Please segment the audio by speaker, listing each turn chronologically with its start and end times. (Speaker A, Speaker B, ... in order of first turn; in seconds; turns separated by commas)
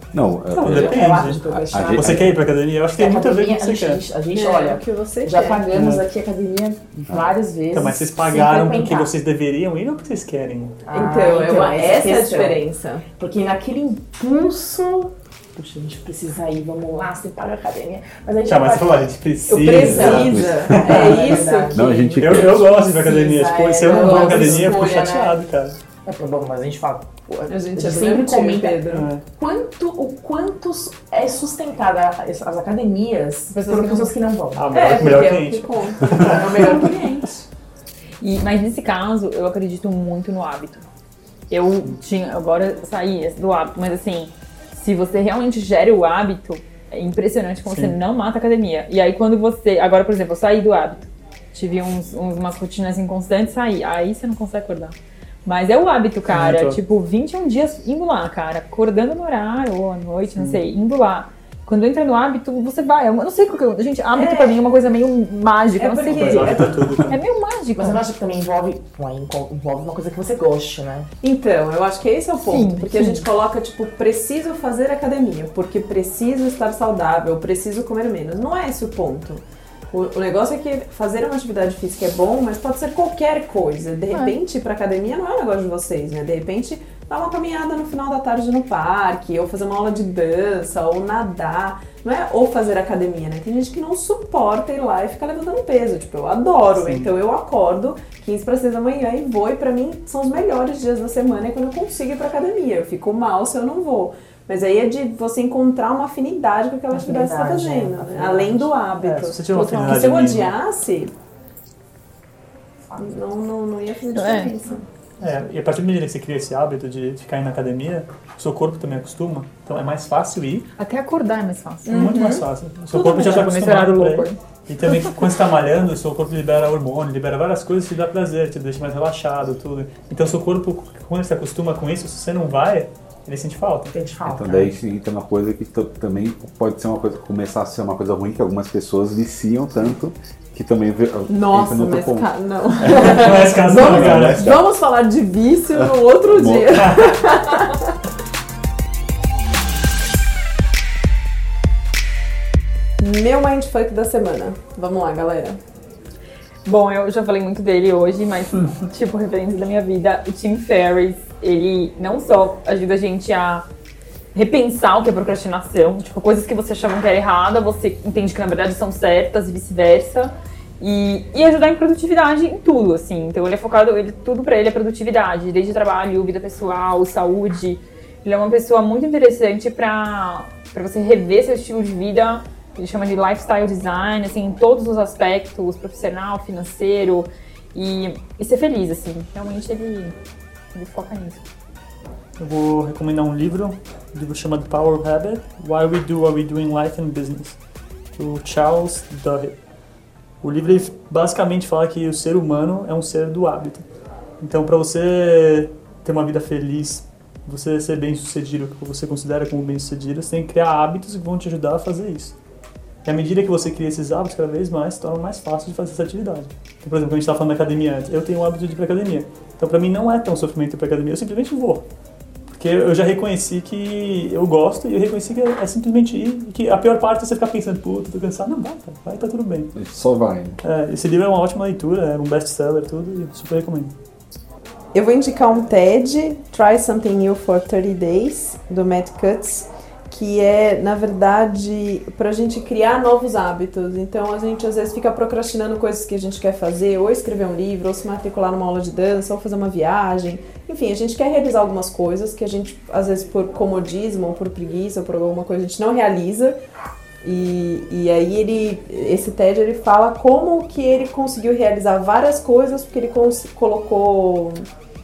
Speaker A: 0.1-2.3, Speaker B: 0.5-4.0, Speaker C: 0.6-2.2, Speaker C: 3.0-9.1, Speaker D: 4.3-5.7, Speaker B: 5.7-6.0, Speaker B: 7.7-10.8, Speaker C: 10.9-12.6, Speaker D: 10.9-13.1, Speaker C: 13.2-19.1, Speaker B: 18.5-21.2, Speaker D: 19.5-22.3, Speaker A: 19.8-21.1, Speaker C: 19.8-21.9, Speaker A: 21.7-22.7, Speaker B: 22.2-25.8, Speaker C: 22.6-25.4, Speaker D: 23.9-24.9, Speaker C: 26.0-35.2, Speaker D: 27.5-29.1, Speaker B: 28.9-29.2, Speaker E: 33.5-34.1, Speaker B: 34.5-36.5, Speaker D: 34.7-37.4, Speaker C: 36.1-37.2, Speaker E: 38.2-40.9, Speaker E: 41.5-68.0, Speaker B: 47.7-48.0, Speaker B: 56.3-56.8, Speaker D: 64.1-64.6, Speaker D: 65.8-67.0, Speaker B: 66.1-67.2, Speaker C: 67.8-71.1, Speaker D: 71.2-111.1, Speaker E: 72.4-73.3, Speaker B: 96.7-97.1, Speaker C: 106.9-108.7, Speaker B: 109.0-110.5, Speaker D: 113.0-114.8, Speaker E: 114.1-114.5, Speaker B: 115.2-120.7, Speaker E: 120.8-122.1, Speaker D: 121.8-123.5, Speaker B: 121.9-133.9, Speaker E: 122.9-124.9, Speaker C: 133.9-134.7, Speaker A: 134.2-144.7, Speaker D: 141.3-147.9, Speaker B: 142.8-144.5, Speaker A: 145.8-147.0, Speaker D: 153.0-155.6, Speaker E: 156.7-163.7, Speaker E: 164.3-190.2, Speaker E: 190.7-191.5, Speaker B: 192.4-199.7, Speaker B: 200.4-212.4, Speaker B: 213.0-221.8, Speaker B: 222.5-229.8, Speaker A: 229.7-230.6, Speaker B: 230.6-233.9, Speaker D: 234.9-256.6, Speaker D: 257.2-264.6